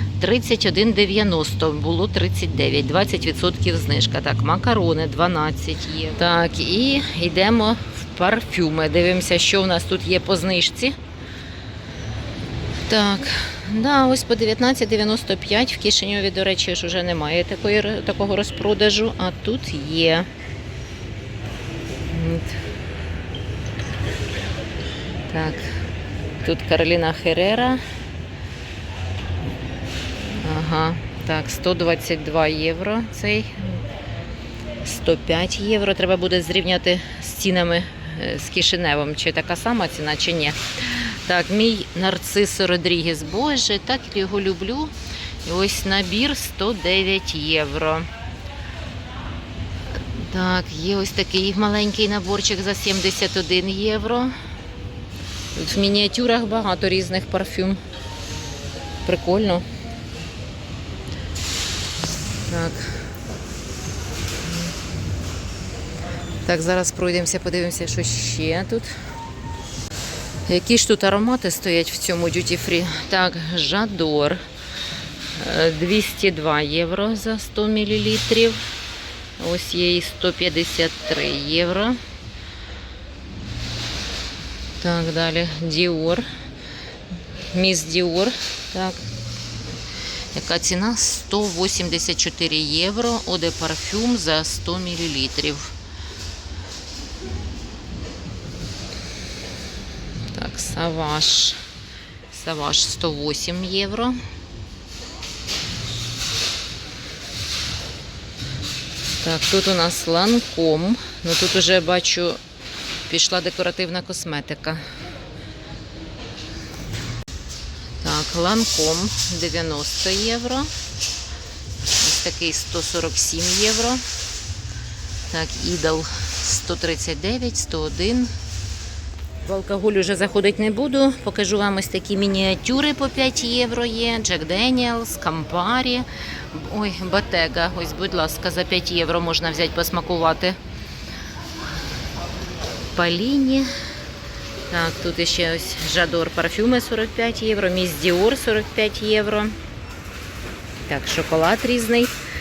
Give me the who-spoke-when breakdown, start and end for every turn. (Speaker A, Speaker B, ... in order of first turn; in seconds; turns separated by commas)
Speaker A: 0.2-10.9, Speaker A: 12.9-20.3, Speaker A: 22.1-22.5, Speaker A: 25.3-25.8, Speaker A: 26.4-27.8, Speaker A: 30.3-33.8, Speaker A: 34.8-44.9, Speaker A: 45.4-48.1, Speaker A: 50.1-54.3, Speaker A: 55.5-57.8, Speaker A: 59.0-59.6, Speaker A: 62.5-63.0, Speaker A: 66.5-68.9, Speaker A: 70.5-74.4, Speaker A: 75.3-78.6, Speaker A: 79.4-82.0, Speaker A: 84.8-86.2, Speaker A: 87.5-89.0, Speaker A: 90.3-95.8, Speaker A: 100.3-101.6, Speaker A: 102.3-104.2, Speaker A: 109.0-112.4, Speaker A: 113.1-114.8, Speaker A: 118.0-120.7, Speaker A: 122.0-124.0, Speaker A: 125.3-128.3, Speaker A: 129.4-140.6, Speaker A: 142.9-143.7, Speaker A: 144.7-149.5, Speaker A: 150.8-152.1